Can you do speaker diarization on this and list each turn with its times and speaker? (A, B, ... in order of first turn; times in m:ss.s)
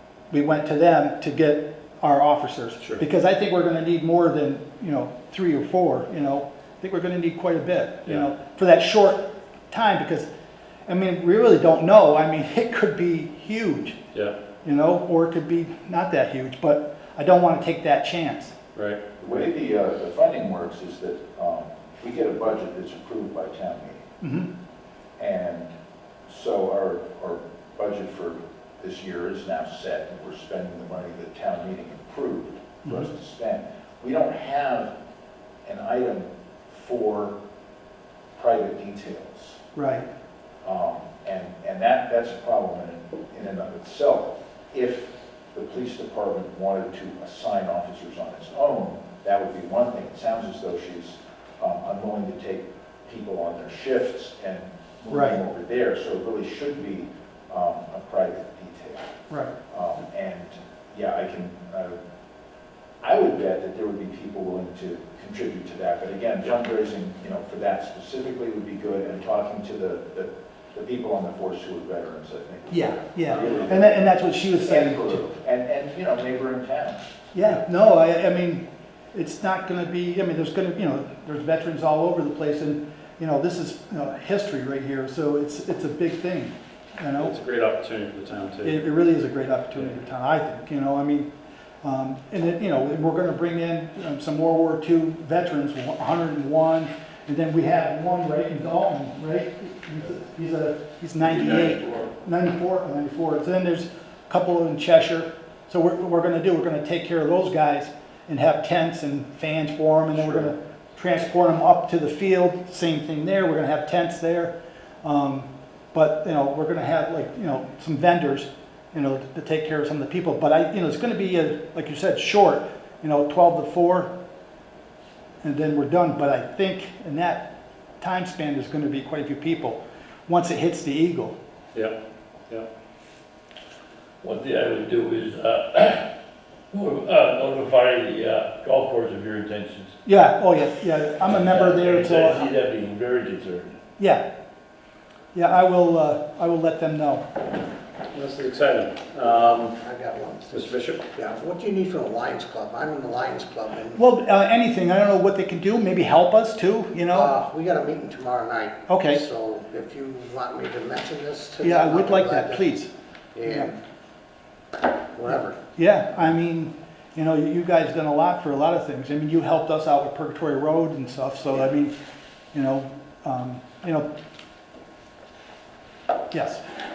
0:00.3-0:10.3 A
0:10.9-0:14.0 A
0:14.6-0:18.6 A
0:18.7-0:19.4 B
0:19.2-0:24.0 C
0:24.2-0:24.5 A
0:25.2-0:25.7 C
0:26.3-0:34.9 C
0:32.8-0:33.1 A
0:35.6-0:37.4 C
0:38.3-0:39.6 C
0:39.7-0:40.1 A
0:40.6-0:59.1 C
0:55.1-0:55.4 A
0:59.7-1:02.0 C
1:03.0-1:17.1 C
1:12.7-1:15.2 A
1:17.3-1:27.4 A
1:27.2-1:28.8 B
1:28.6-1:31.3 A
1:31.8-2:04.1 A
1:41.2-1:42.1 D
1:50.2-1:50.5 B
2:05.4-2:11.4 A
2:14.2-2:16.0 D
2:16.7-2:19.9 D
2:20.0-2:22.5 A
2:21.2-2:23.7 D
2:24.0-2:24.2 A
2:25.3-2:27.2 A
2:28.1-2:29.7 B
2:29.2-2:34.0 E
2:30.5-2:31.0 B
2:33.9-2:37.3 A
2:37.1-2:42.6 E
2:38.9-2:39.2 A
2:41.6-2:42.9 A
2:43.3-2:43.7 E
2:43.4-2:43.7 A
2:45.1-2:45.6 E
2:45.8-2:51.9 A
2:52.5-2:54.1 A
2:56.3-2:56.6 A